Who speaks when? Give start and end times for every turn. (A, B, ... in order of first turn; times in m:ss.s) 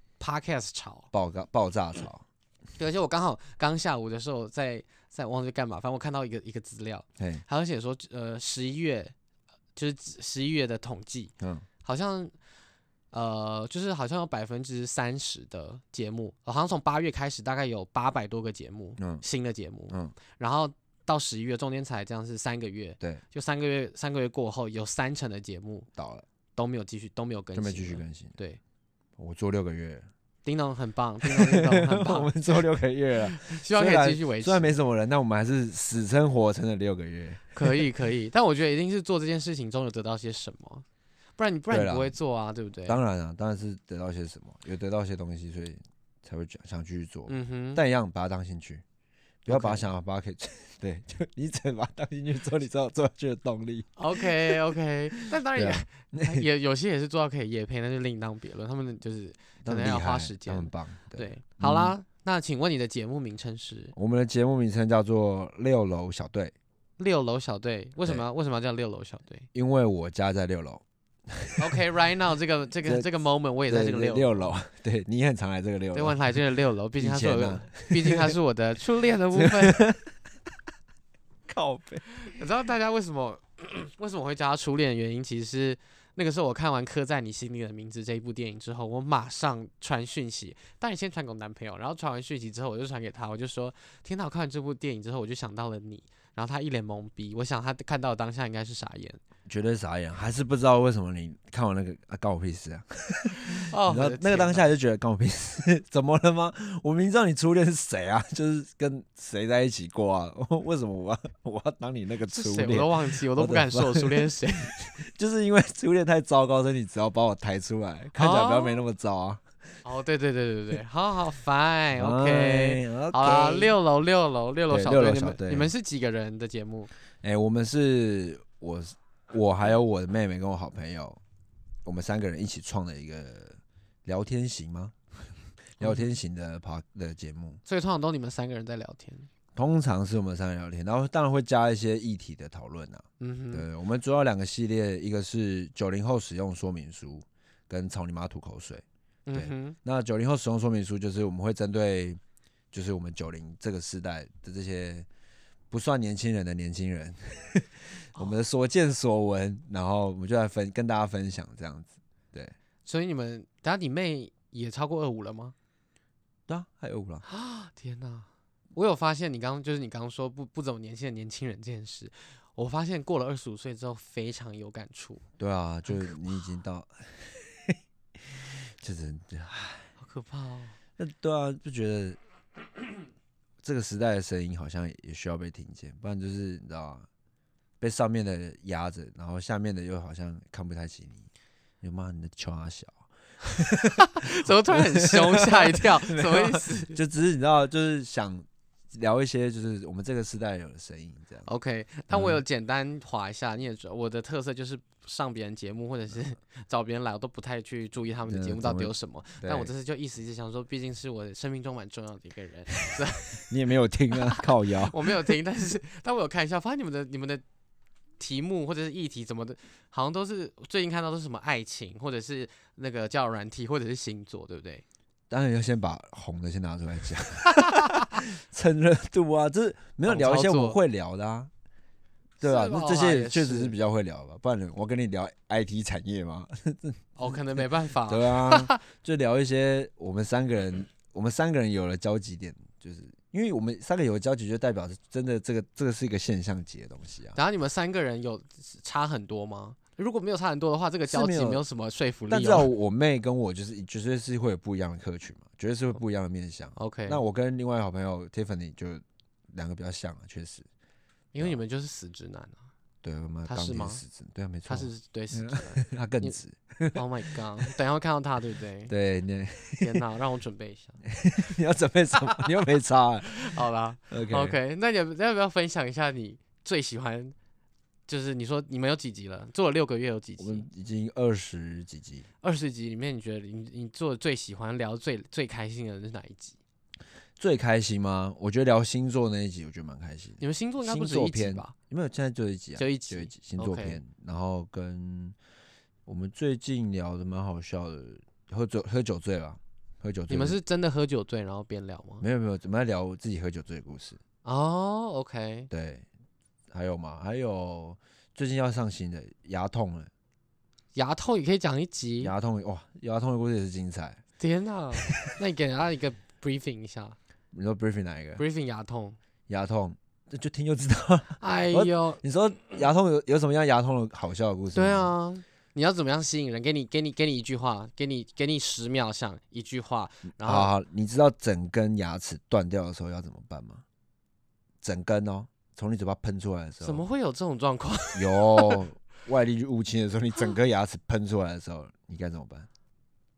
0:00.2-0:01.1 A
0:01.1-0:02.2 B
0:02.8-0:09.1 A
0:07.2-0:07.4 B
0:09.8-0:11.3 A
0:11.4-0:11.7 B
0:11.8-0:12.3 A
0:13.1-0:25.9 A
0:19.0-0:19.2 B
0:19.9-0:20.2 B
0:26.0-0:26.3 B
0:26.6-0:28.6 A
0:27.6-0:28.4 B
0:29.2-0:30.1 B
0:30.4-0:32.6 A
0:31.2-0:37.9 B
0:33.2-0:34.7 A
0:37.6-0:40.8 A
0:41.4-0:43.0 A
0:41.7-0:42.2 B
0:42.9-0:48.8 B
0:47.3-0:47.8 A
0:49.4-0:54.6 B
0:49.5-0:49.8 A
0:54.0-1:03.9 A
0:55.1-0:56.4 B
0:59.6-1:02.0 B
1:03.9-1:06.5 B
1:07.0-1:09.5 A
1:09.5-1:11.8 B
1:11.6-1:14.4 A
1:13.7-1:16.2 B
1:15.9-1:19.8 A
1:17.0-1:18.4 B
1:19.4-1:20.1 B
1:21.5-1:22.0 B
1:22.2-1:39.2 A
1:39.5-1:59.4 B
1:43.4-1:44.7 A
1:52.3-1:54.8 A
1:58.2-1:58.8 A
1:59.8-2:06.9 A
2:02.0-2:03.8 B
2:04.7-2:05.7 B
2:07.2-2:11.2 B
2:11.8-2:15.0 B
2:15.8-2:17.6 B
2:15.8-2:16.1 A
2:17.7-2:19.3 A
2:19.6-2:32.2 B
2:23.2-2:23.6 A
2:29.3-2:29.8 A
2:32.7-2:35.1 B
2:35.7-2:42.5 B
2:42.8-2:45.5 A
2:46.5-2:47.2 B
2:47.3-2:55.2 A
2:55.4-2:59.9 B
3:00.0-3:00.8 A
3:01.0-3:02.2 B
3:03.6-3:07.1 B
3:07.8-3:11.3 B
3:11.8-3:21.5 B
3:14.0-3:17.0 A
3:21.5-3:33.5 A
3:22.1-3:22.4 B
3:28.3-3:29.7 B
3:33.5-3:35.3 B
3:34.1-3:37.4 A
3:38.2-3:44.8 A
3:45.3-3:51.5 B
3:50.1-3:50.8 A
3:52.4-4:07.4 B
3:52.4-3:53.8 A
3:57.2-3:58.8 A
4:07.4-4:12.7 A
4:11.1-4:11.6 B
4:12.3-4:20.7 B
4:16.8-4:17.2 A
4:21.3-4:22.6 A
4:23.0-4:27.7 B
4:23.5-4:24.0 A
4:24.7-4:26.4 A
4:26.9-4:28.9 A
4:28.9-4:30.0 B
4:29.8-4:31.0 A
4:31.1-4:33.5 B
4:33.3-4:37.4 A
4:34.1-4:34.6 B
4:38.1-4:40.7 A
4:40.4-4:42.3 B
4:42.4-4:46.6 A
4:47.4-4:55.4 B
4:50.4-4:51.7 A
4:52.8-4:54.0 A
4:56.0-5:00.6 B
5:00.3-5:02.2 A
5:02.2-5:04.2 B
5:04.4-5:05.7 A
5:05.7-5:06.1 B
5:06.7-5:10.1 B
5:11.0-5:12.3 A
5:12.2-5:14.2 B
5:14.4-5:17.2 A
5:15.0-5:15.4 B
5:17.5-5:18.4 B
5:18.4-5:19.2 A
5:19.5-5:25.2 B
5:21.4-5:22.8 A
5:24.7-5:30.7 A
5:30.4-5:33.8 B
5:34.8-5:37.0 B
5:36.8-5:38.8 A
5:38.1-5:42.7 B